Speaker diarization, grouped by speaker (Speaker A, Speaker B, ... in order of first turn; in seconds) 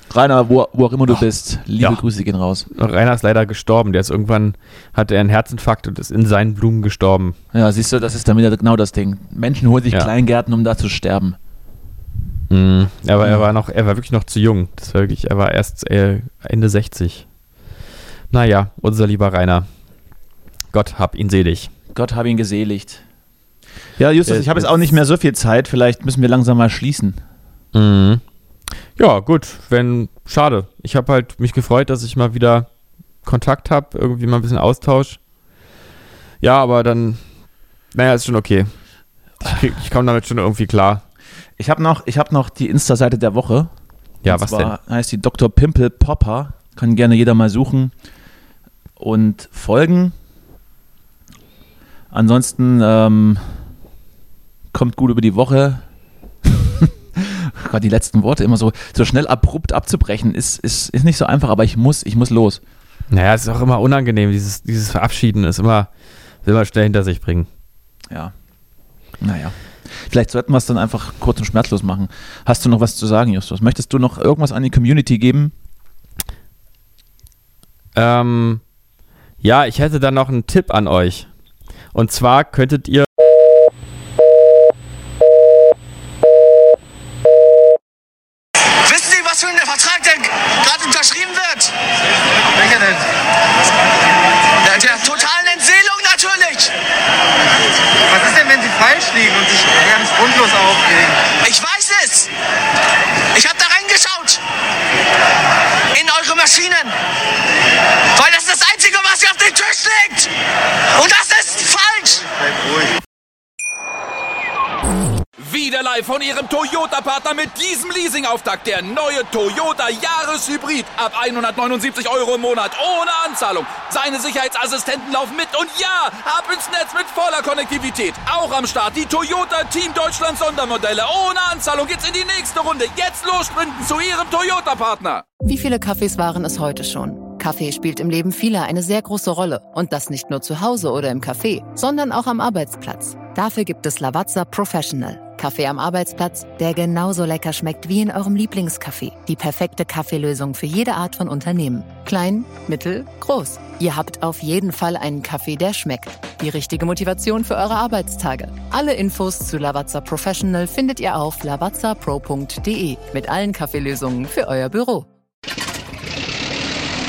Speaker A: 0.1-2.7, 7.5-11.4, 21.9-23.0, 24.0-27.2, 41.6-43.7, 44.3-47.9, 49.0-50.1, 52.1-53.5, 54.7-55.8, 56.8-62.6, 69.2-75.5
Speaker B: 2.7-7.4, 12.5-17.2, 18.3-19.7, 20.7-21.7, 24.3-24.9, 27.7-28.2, 29.0-32.7, 33.2-35.2, 36.4-37.2, 37.9-38.7, 39.4-41.0, 44.2-44.7, 63.1-65.9, 66.5-67.5, 78.0-78.6, 79.4-81.3, 81.9-83.1
Speaker C: 88.8-91.7, 92.5-93.1, 94.6-96.7, 98.1-102.3, 103.3-104.4, 105.9-106.9, 108.2-110.3, 110.9-113.0
Speaker D: 115.4-135.2
Speaker E: 135.4-165.1